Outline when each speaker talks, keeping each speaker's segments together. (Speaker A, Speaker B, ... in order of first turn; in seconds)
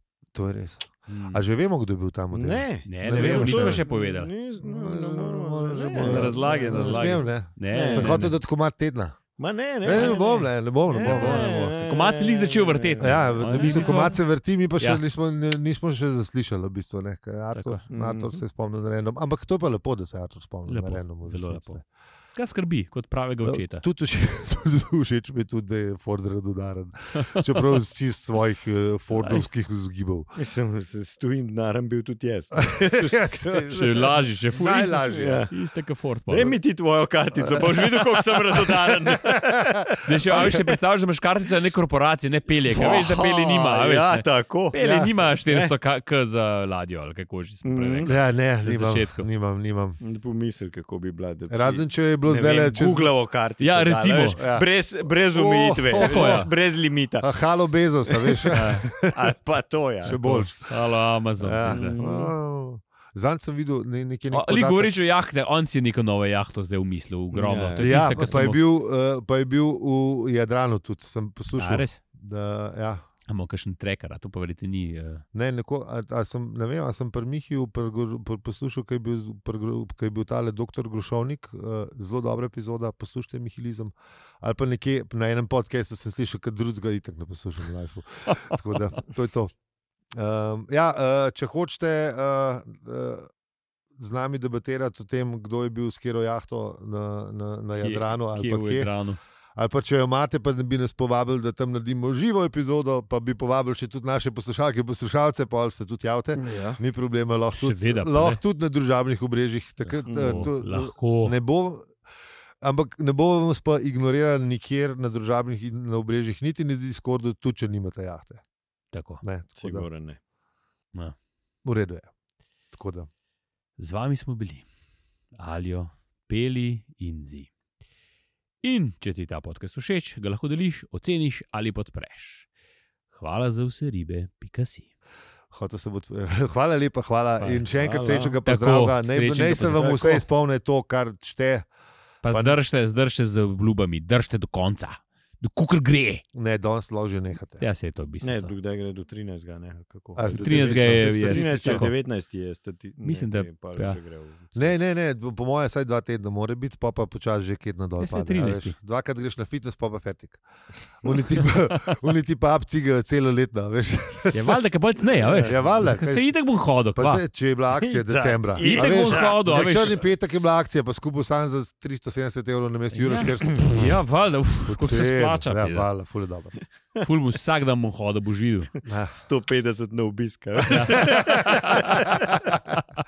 Speaker A: 0.3-3.8, 4.6-9.2, 9.8-11.5, 13.0-21.8, 23.4-30.3, 32.7-35.5, 37.5-37.9, 38.5-40.7, 44.8-45.1, 48.0-50.0, 51.5-53.1, 54.4-56.5, 57.2-59.3, 60.0-60.7, 61.4-64.9, 67.8-73.0, 75.3-89.5, 90.1-93.3, 94.0-98.9, 99.5-112.0, 112.6-118.4, 119.2-119.8, 121.6-122.1, 122.7-123.1, 135.5-141.7, 142.3-142.6, 146.3-147.6, 150.2-151.9, 154.6-160.4, 161.0-164.6, 165.4-166.3, 166.9-173.9, 174.7-176.6, 178.8-179.1, 180.8-182.5
Speaker B: 1.1-1.4, 2.8-4.3, 6.0-8.3, 10.9-14.2, 17.5-17.8, 20.7-21.8, 22.4-23.8, 27.1-27.6, 29.1-29.4, 33.7-36.6, 37.5-38.4, 40.0-49.3, 53.6-54.4, 56.0-56.5, 58.5-58.9, 60.0-62.0, 64.3-68.6, 71.5-72.0, 73.3-75.2, 97.8-99.2, 107.5-108.4, 109.9-111.3, 118.9-119.2, 123.8-124.7, 125.3-127.5, 128.6-132.5, 133.1-134.9, 137.4-137.7, 138.4-139.9, 142.2-146.2, 147.6-148.5, 150.3-151.9, 153.0-154.0, 158.0-158.7, 164.3-167.2, 168.6-170.0, 172.9-175.9, 177.0-178.7, 180.7-182.1
Speaker C: 2.3-7.0, 7.7-8.3, 9.4-14.0, 17.9-18.4, 30.4-34.1, 35.1-35.5, 36.3-40.5, 42.7-45.7, 47.6-48.1, 50.0-57.3, 58.1-60.2, 61.6-62.3, 67.3-68.4, 106.3-106.8, 110.1-110.4, 119.6-120.2, 137.8-138.4, 139.7-140.2, 148.2-154.7, 165.2-165.6, 167.8-170.0, 179.1-182.6